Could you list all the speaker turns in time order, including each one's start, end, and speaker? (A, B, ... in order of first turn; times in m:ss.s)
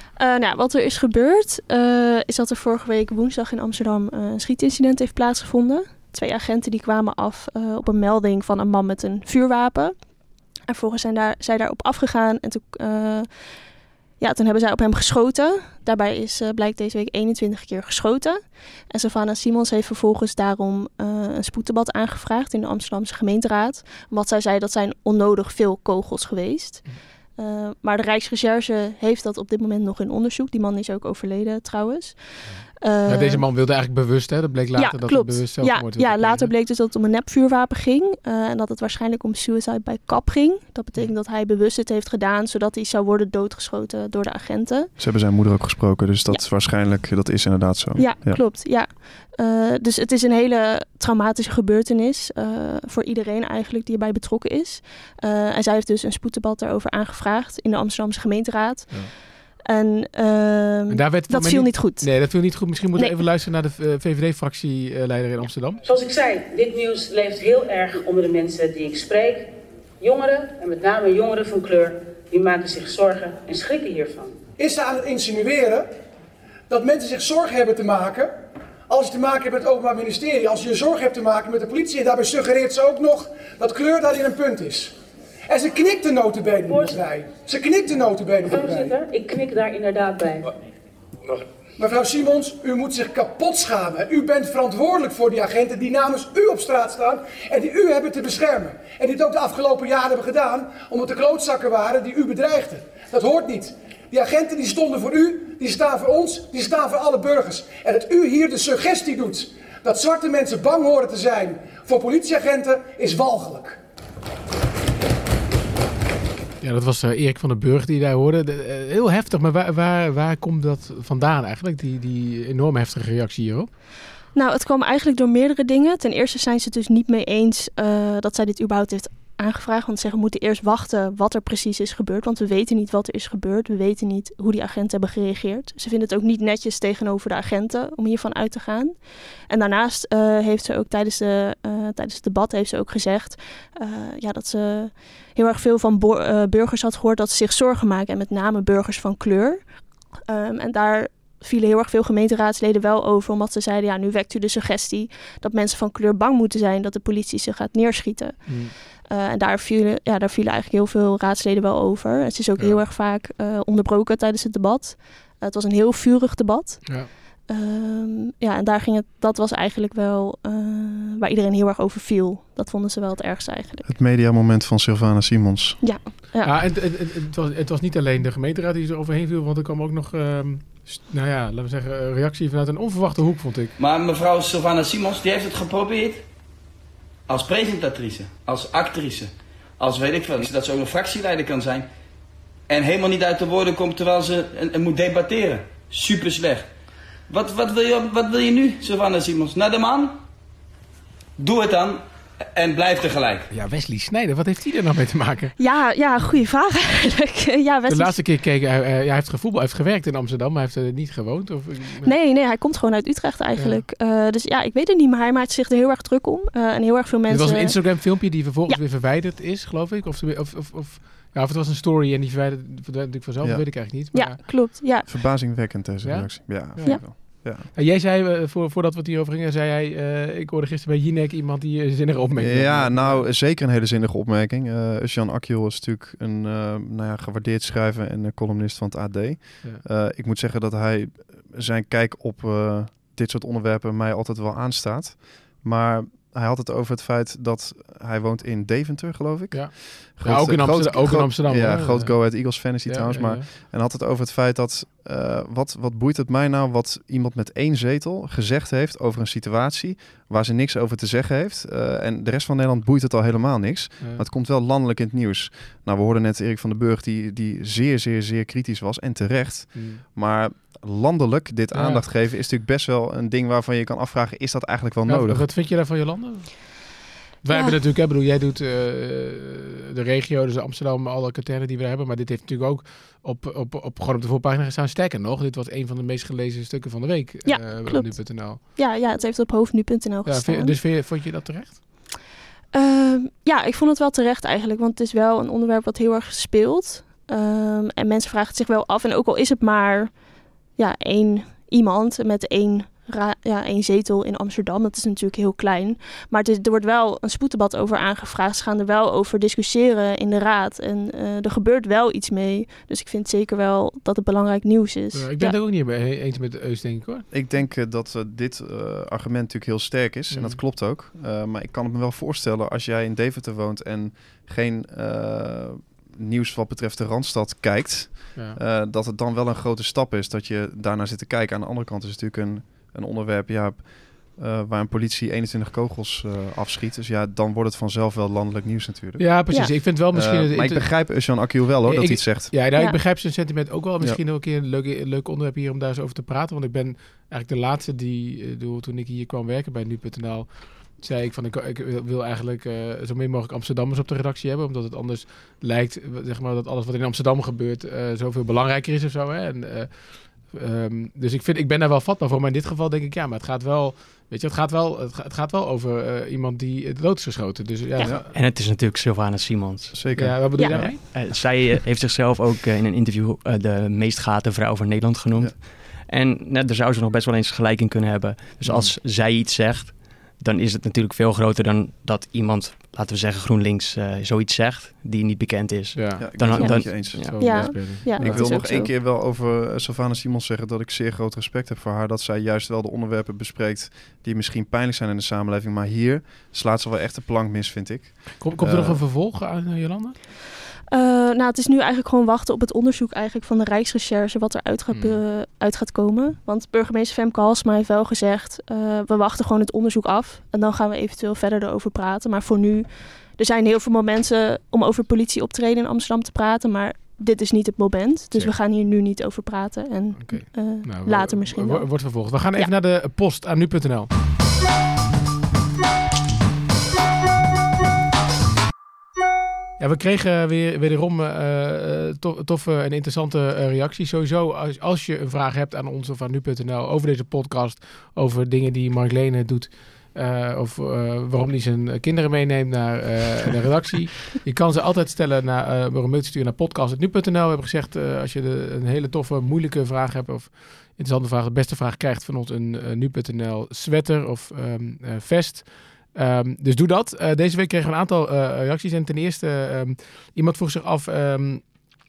0:00.2-0:10.0 A
0:10.7-0:13.3 A
0:14.2-0:33.4 A
0:32.5-0:36.5 B
0:34.7-0:44.9 A
0:45.0-0:48.4 C
0:48.0-0:59.1 A
0:59.6-1:02.1 A
1:00.9-1:05.8 B
1:05.8-1:14.4 D
1:14.6-1:15.9 E
1:16.7-1:24.9 E
1:25.5-1:28.9 E
1:26.6-1:27.0 D
1:28.4-1:30.5 D
1:31.8-1:53.8 E
1:56.6-2:03.7 B
2:04.3-2:29.8 A
2:30.3-2:53.9 A
2:38.4-2:38.7 B
2:53.8-2:55.8 C
2:55.8-2:56.6 A
2:56.4-3:03.7 B
3:03.8-3:06.2 F
3:07.3-3:11.8 F
3:12.7-3:16.7 F
3:17.3-3:20.2 F
3:21.4-3:22.0 F
3:22.5-3:23.5 F
3:23.5-3:25.6 B
3:25.6-3:28.1 A
3:27.9-3:32.1 B
3:32.0-3:38.8 A
3:33.6-3:33.8 B
3:37.3-3:44.4 B
3:43.4-3:43.7 C
3:44.1-3:45.0 A
3:44.3-3:47.7 C
3:46.0-3:53.2 B
3:52.4-4:35.5 C
4:09.5-4:13.4 B
4:24.0-4:24.2 B
4:29.7-4:30.0 B
4:31.7-4:32.0 B
4:35.0-4:48.6 B
4:37.5-4:37.8 A
4:47.4-4:50.8 A
4:50.2-4:51.8 B
4:52.7-5:00.2 A
5:00.7-5:15.5 A
5:15.1-5:17.2 B
5:17.3-5:42.5 C
5:20.3-5:20.6 B
5:39.2-6:08.2 B
6:08.0-6:08.2 C
6:08.3-6:10.0 G
6:09.9-6:10.9 C
6:10.2-6:11.0 B
6:10.6-6:10.8 A
6:11.0-6:27.7 G
6:18.6-6:18.9 C
6:25.9-6:28.6 B
6:26.2-6:39.0 C
6:26.6-6:28.9 A
6:38.4-6:40.1 B
6:40.9-7:02.7 A
6:44.9-6:45.2 B
7:00.2-7:04.1 B
7:09.8-7:41.6 B